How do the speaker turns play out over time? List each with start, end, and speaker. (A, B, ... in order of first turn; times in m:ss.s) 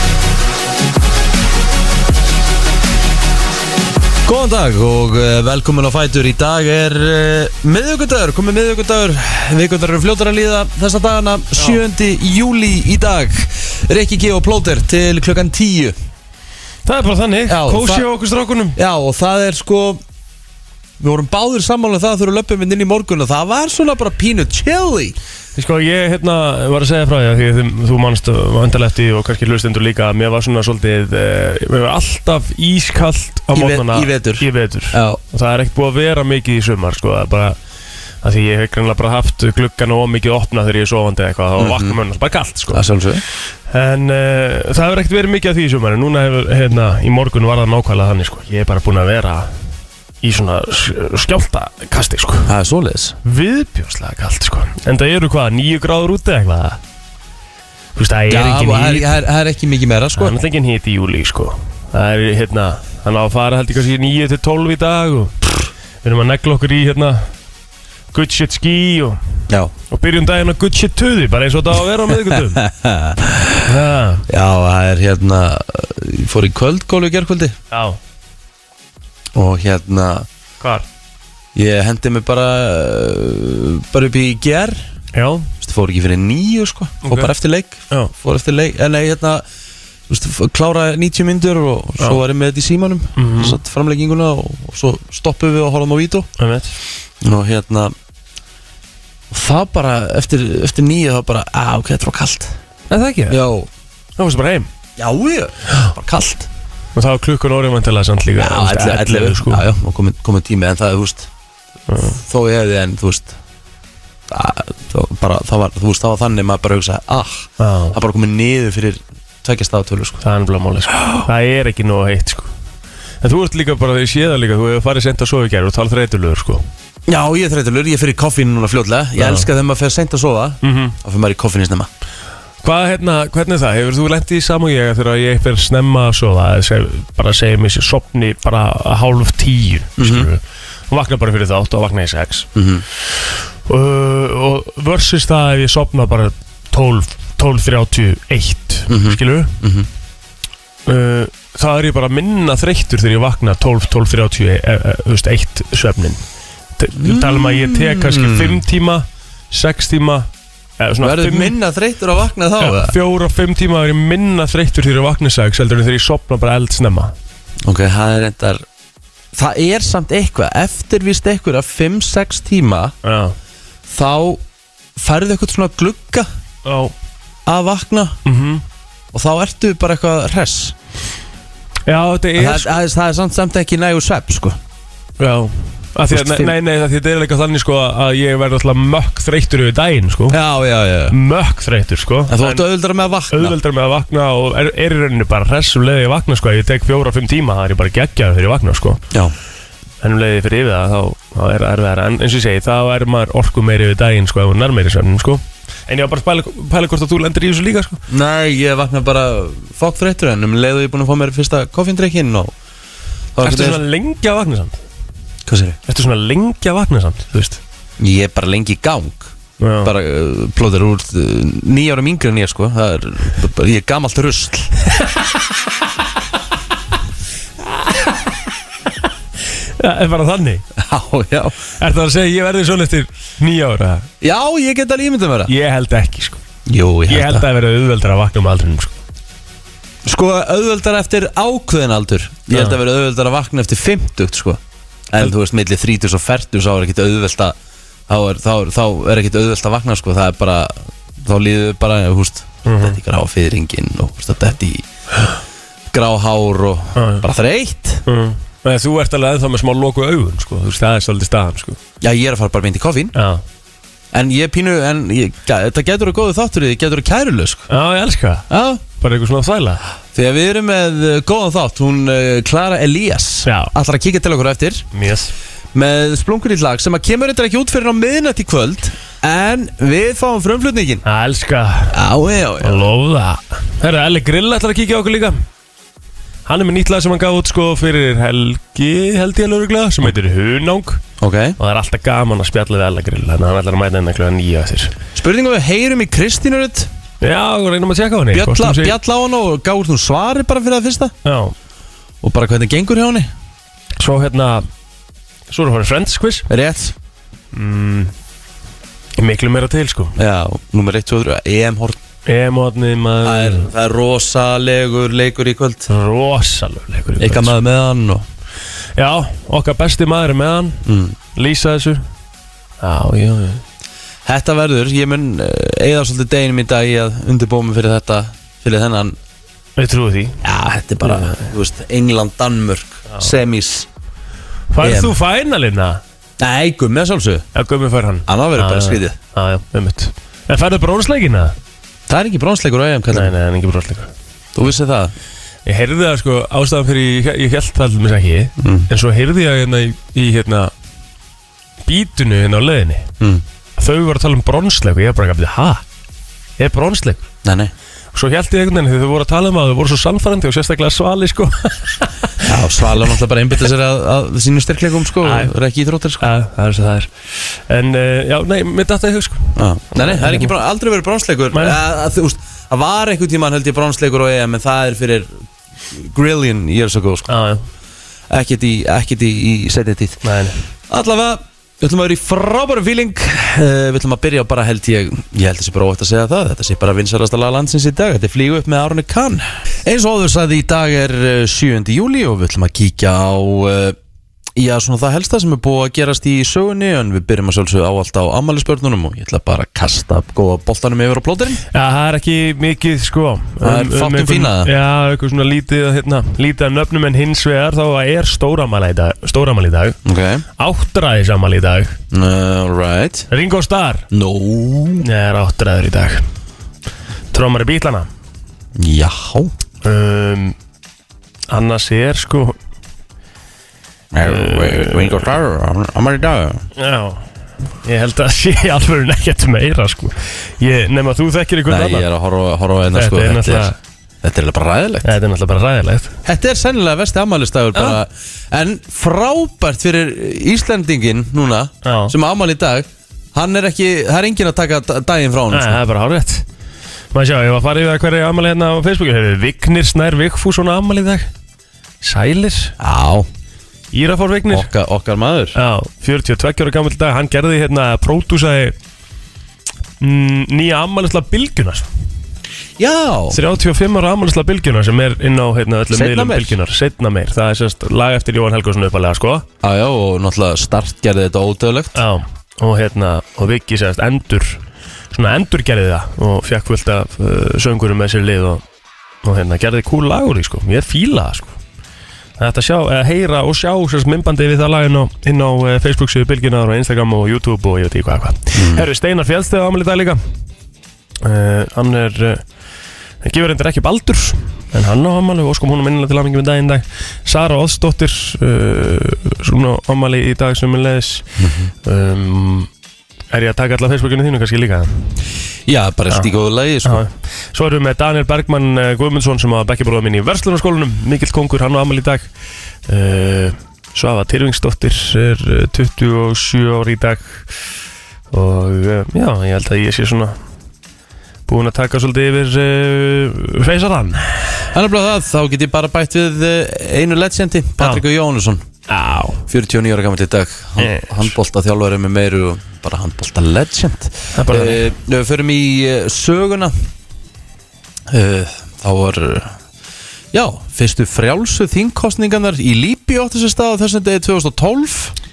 0:04.3-0:16.0 A
0:16.8-0:18.8 B
0:17.5-0:18.1 A
0:18.8-0:20.0 A
0:21.0-0:25.2 A
0:25.6-0:37.6 B
0:33.5-0:35.2 A
0:38.2-0:42.8 B
0:41.6-0:42.0 A
0:42.7-0:43.2 A
0:43.7-0:49.5 B
0:50.2-0:52.5 B
0:52.5-0:53.2 A
0:53.2-0:56.8 B
0:58.0-0:59.2 B
0:58.3-1:00.4 A
1:00.2-1:05.4 B
1:06.0-1:07.3 B
1:08.1-1:09.2 B
1:09.9-1:12.6 B
1:12.3-1:13.6 A
1:13.6-1:14.2 B
1:14.3-1:17.6 A
1:17.7-1:18.0 B
1:19.4-1:20.3 A
1:20.6-1:20.8 B
1:21.6-1:24.8 A
1:25.1-1:25.5 B
1:25.6-1:29.4 A
1:27.0-1:27.3 B
1:30.1-1:36.3 A
1:33.2-1:33.6 B
1:36.4-1:36.8 B
1:37.2-1:38.0 A
1:39.3-1:42.6 A
1:42.9-1:43.4 B
1:43.3-1:43.7 A
1:44.2-1:44.7 B
1:45.0-1:46.5 A
1:47.0-1:49.6 B
1:48.4-1:51.3 A
1:51.9-1:52.2 B
1:52.0-1:53.4 A
1:54.3-2:00.2 A
1:57.6-1:58.0 B
2:00.2-2:02.5 B
2:00.9-2:01.3 A
2:03.2-2:06.6 B
2:07.1-2:11.9 A
2:09.2-2:09.5 B
2:10.6-2:11.0 B
2:12.6-2:22.5 B
2:20.0-2:20.3 A
2:22.6-2:22.8 A
2:23.7-2:29.6 B
2:28.9-2:29.9 A
2:30.9-2:36.2 B
2:36.8-2:40.3 B
2:37.0-2:38.6 A
2:40.8-2:41.6 B
2:41.0-2:43.0 A
2:42.6-2:47.1 B
2:47.6-2:48.6 A
2:49.3-2:53.0 A
2:53.0-2:53.4 B
2:53.9-2:54.4 A
2:55.0-2:56.3 A
2:56.6-2:56.9 B
2:57.5-2:58.2 A
2:58.2-2:58.6 B
2:59.1-3:00.8 A
3:01.9-3:02.7 B
3:02.4-3:04.6 A
3:05.2-3:10.4 B
3:06.1-3:06.6 A
3:10.3-3:11.2 A
3:11.1-3:12.6 B
3:12.3-3:13.6 A
3:13.3-3:19.0 B
3:20.0-3:28.0 B
3:28.1-3:32.5 A
3:33.4-3:33.8 A
3:33.4-3:34.8 B
3:35.5-3:35.8 A
3:35.9-3:37.6 B
3:38.0-3:44.7 A
3:39.6-3:39.9 B
3:49.8-3:50.6 B
3:50.8-3:51.6 A
3:51.8-3:54.1 B
3:54.2-3:55.5 A
3:55.5-3:56.4 B
3:56.7-3:57.5 A
3:57.1-3:59.0 B
4:00.0-4:04.6 A
4:02.5-4:02.8 B
4:05.1-4:07.6 A
4:08.1-4:14.8 A
4:12.6-4:13.0 B
4:15.9-4:18.0 A
4:17.0-4:17.2 B
4:18.1-4:21.8 B
4:22.0-4:23.2 A
4:23.2-4:23.4 B
4:24.1-4:27.7 A
4:27.7-4:28.4 B
4:28.5-4:28.8 A
4:29.0-4:29.8 B
4:30.1-4:34.9 A
4:33.4-4:33.7 B
4:34.9-4:35.3 B
4:35.7-4:41.0 A
4:41.0-4:42.0 B
4:41.9-4:42.8 A
4:42.6-4:45.4 B
4:46.5-4:51.0 B
4:51.2-4:51.6 A
4:51.6-4:54.9 B
4:55.2-4:56.9 A
4:57.2-4:59.0 B
4:58.3-5:01.1 A
5:01.2-5:01.5 B
5:02.2-5:03.3 A
5:04.0-5:04.7 B
5:05.5-5:06.5 B
5:06.5-5:06.9 A
5:07.5-5:08.1 B
5:09.2-5:10.2 B
5:10.2-5:12.0 A
5:12.3-5:13.7 B
5:13.2-5:15.9 A
5:15.9-5:17.6 B
5:17.2-5:18.3 A
5:19.0-5:20.8 B
5:20.9-5:21.2 A
5:21.4-5:22.0 B
5:22.8-5:23.6 B
5:24.3-5:29.2 A
5:29.8-5:30.4 B
5:30.4-5:33.9 A
5:31.0-5:31.5 B
5:34.7-5:36.0 B
5:34.8-5:35.2 A
5:36.4-5:37.5 A
5:37.6-5:41.6 B
5:38.3-5:39.2 A
5:42.1-5:43.3 A
5:43.1-5:44.1 B
5:44.5-5:45.1 A
5:45.7-5:50.7 B
5:48.6-5:48.9 A
5:51.9-5:53.1 B
5:53.8-5:55.8 B
5:56.6-5:57.2 B
5:57.4-5:57.7 A
5:58.1-6:02.5 B
6:02.4-6:06.3 A
6:05.2-6:05.5 B
6:06.2-6:10.5 B
6:09.6-6:15.4 A
6:11.5-6:11.8 B
6:15.9-6:17.3 A
6:17.3-6:17.6 B
6:18.3-6:20.2 A
6:20.2-6:20.6 B
6:20.9-6:34.0 A
6:34.6-6:41.6 A
6:41.7-6:50.0 B
6:43.6-6:44.7 A
6:50.0-6:50.4 A
6:50.6-6:52.0 B
6:52.1-6:53.3 A
6:53.3-6:54.1 B
6:54.1-6:55.1 A
6:55.0-6:56.2 B
6:57.3-6:58.1 B
6:58.8-6:59.5 A
6:59.8-7:00.5 B
7:01.5-7:02.6 B
7:04.1-7:06.7 A
7:04.2-7:05.3 B
7:06.8-7:07.3 B
7:07.8-7:12.1 B
7:11.7-7:13.7 A
7:12.9-7:13.8 B
7:14.2-7:15.2 A
7:15.0-7:16.2 B
7:16.2-7:25.8 A
7:21.8-7:22.1 B
7:25.5-7:26.4 B
7:27.1-7:31.3 B
7:32.0-7:32.7 B
7:32.8-7:33.3 A
7:33.9-7:34.7 B
7:34.5-7:35.6 A
7:35.6-7:38.8 B
7:40.0-7:41.9 B
7:42.8-7:43.4 A
7:43.3-7:49.4 B
7:45.9-7:46.6 A
7:49.6-7:52.0 A
7:52.0-7:54.6 B
7:55.1-7:58.6 B
7:59.2-8:01.6 B
8:02.4-8:10.2 B
8:08.5-8:08.9 A
8:11.2-8:12.4 B
8:13.2-8:21.3 B
8:21.4-8:21.7 A
8:21.8-8:22.7 B
8:23.3-8:25.2 B
8:25.7-8:27.0 A
8:26.8-8:32.3 B
8:32.9-8:37.5 B
8:38.3-8:40.4 B
8:41.5-8:44.5 B
8:44.7-8:48.6 A
8:48.9-8:49.4 B
8:49.5-8:56.7 A
8:50.8-8:51.3 B
8:54.3-8:54.8 B
8:58.1-8:59.6 A
9:00.3-9:05.2 A